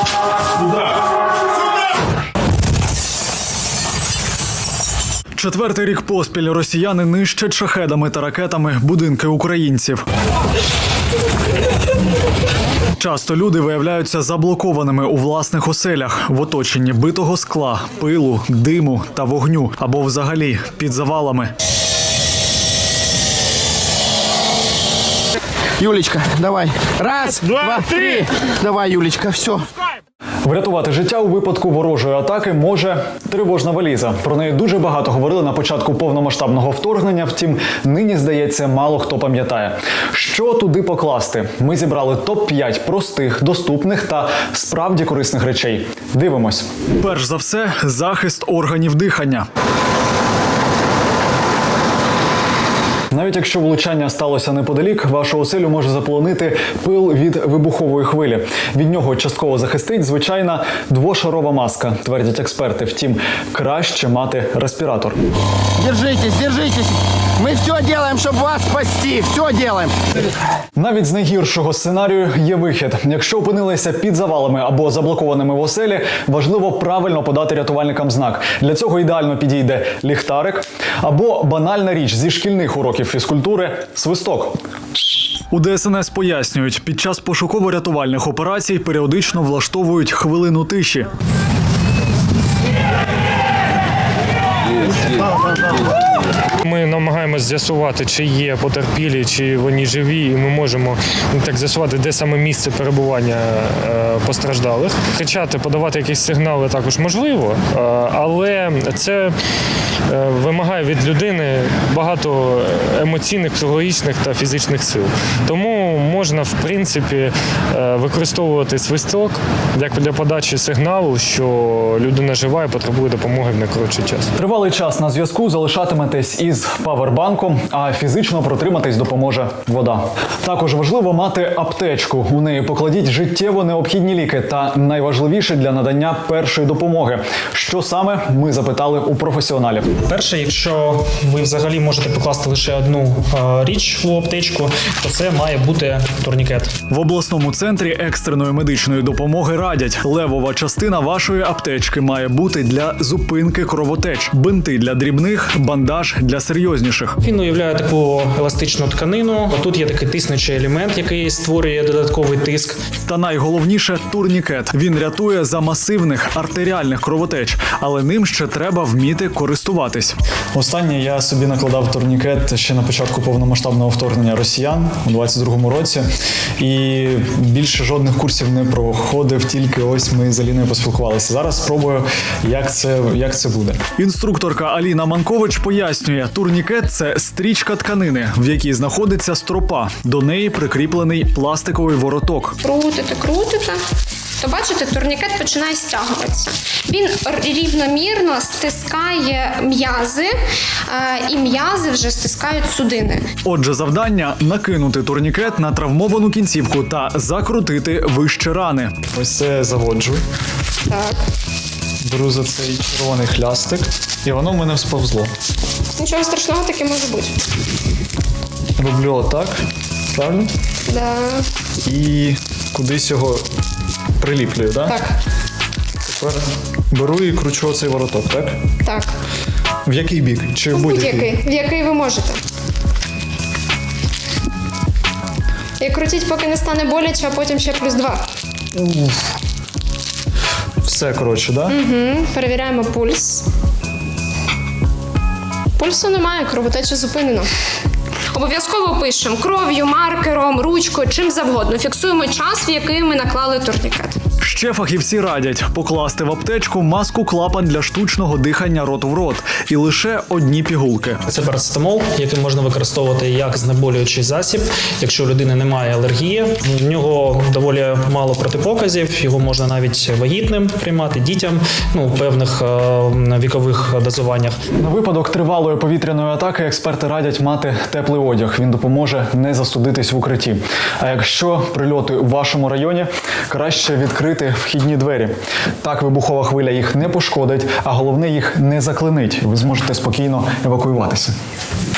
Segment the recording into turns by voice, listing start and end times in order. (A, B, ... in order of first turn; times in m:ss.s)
0:05.4-0:10.0 A
0:13.0-0:21.5 A
0:25.8-0:29.6 B
0:30.4-0:49.5 A
0:53.1-1:05.2 A
1:05.8-1:10.0 B
1:10.8-1:24.6 A
1:25.5-1:31.1 A
1:36.6-1:49.4 C
1:50.1-2:04.3 C
2:04.4-2:20.0 A
2:20.0-2:26.7 D
2:26.9-2:37.2 A
2:37.2-2:42.8 D
2:43.1-2:56.1 A
2:56.6-3:12.6 A
3:12.6-3:13.8 E
3:14.4-3:20.3 E
3:20.9-3:23.2 E
3:23.4-3:30.2 A
3:30.9-3:31.2 E
3:32.0-3:35.3 A
3:36.0-3:37.4 E
3:38.8-3:40.5 A
3:40.9-3:41.5 E
3:41.8-3:43.4 A
3:44.2-3:45.0 A
3:44.9-3:45.2 E
3:46.0-3:48.6 A
3:48.8-3:49.2 E
3:49.8-3:51.3 A
3:50.7-3:52.4 E
3:55.8-3:58.3 E
3:58.7-3:59.2 A
4:00.8-4:01.8 A
4:01.7-4:03.5 E
4:05.8-4:07.5 E
4:08.3-4:14.2 E
4:14.4-4:21.2 A
4:21.3-4:34.6 D
4:34.8-4:51.4 A